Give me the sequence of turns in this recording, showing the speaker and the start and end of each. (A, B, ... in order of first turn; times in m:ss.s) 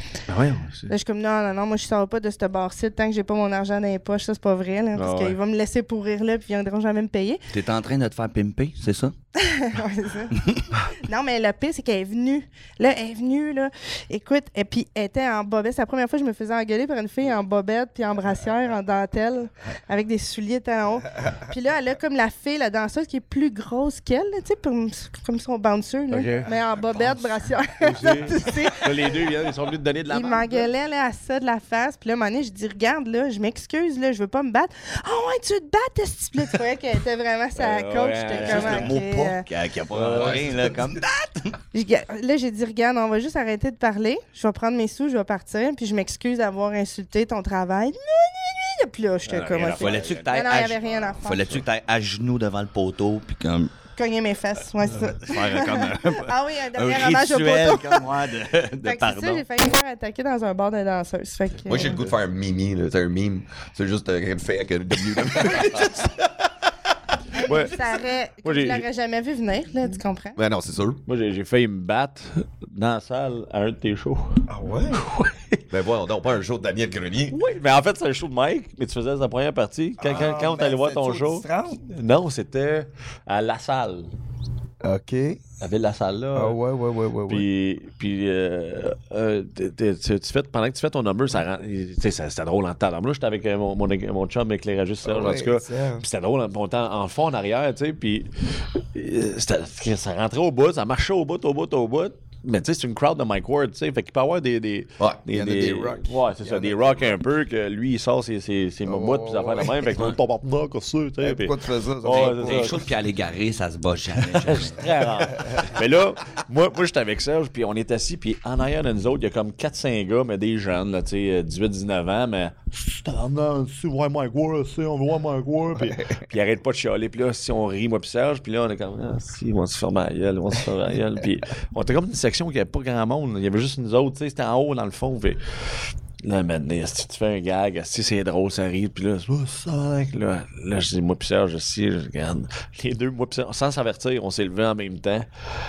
0:00.3-0:00.9 A
0:00.9-0:07.4 B
0:04.9-0:05.4 A
0:07.5-0:09.1 C
0:09.4-0:29.3 B
0:26.1-0:26.5 A
0:27.8-0:30.7 A
0:30.1-0:39.4 B
0:37.6-0:39.0 A
0:38.3-0:41.6 C
0:39.9-0:40.4 A
0:40.1-0:40.8 D
0:41.7-0:51.5 B
0:49.2-0:50.6 A
0:49.6-0:53.8 C
0:54.0-0:58.1 B
0:55.2-0:59.4 C
0:58.8-1:02.0 B
1:01.7-1:06.3 D
1:07.3-1:10.4 B
1:07.4-1:08.9 A
1:10.4-1:11.0 D
1:11.1-1:14.4 A
1:14.5-1:15.1 E
1:15.0-1:15.6 A
1:15.7-1:17.4 D
1:17.3-1:24.1 A
1:20.0-1:21.8 E
1:24.8-1:25.4 E
1:25.6-1:26.6 A
1:26.3-1:27.4 E
1:27.3-1:52.8 A
1:35.0-1:36.1 E
1:45.0-1:45.3 D
1:45.3-1:47.1 E
1:48.8-1:49.8 E
1:51.2-1:52.8 E
1:52.1-1:55.1 C
1:54.4-2:15.4 A
1:55.4-1:55.7 E
2:16.2-2:25.3 A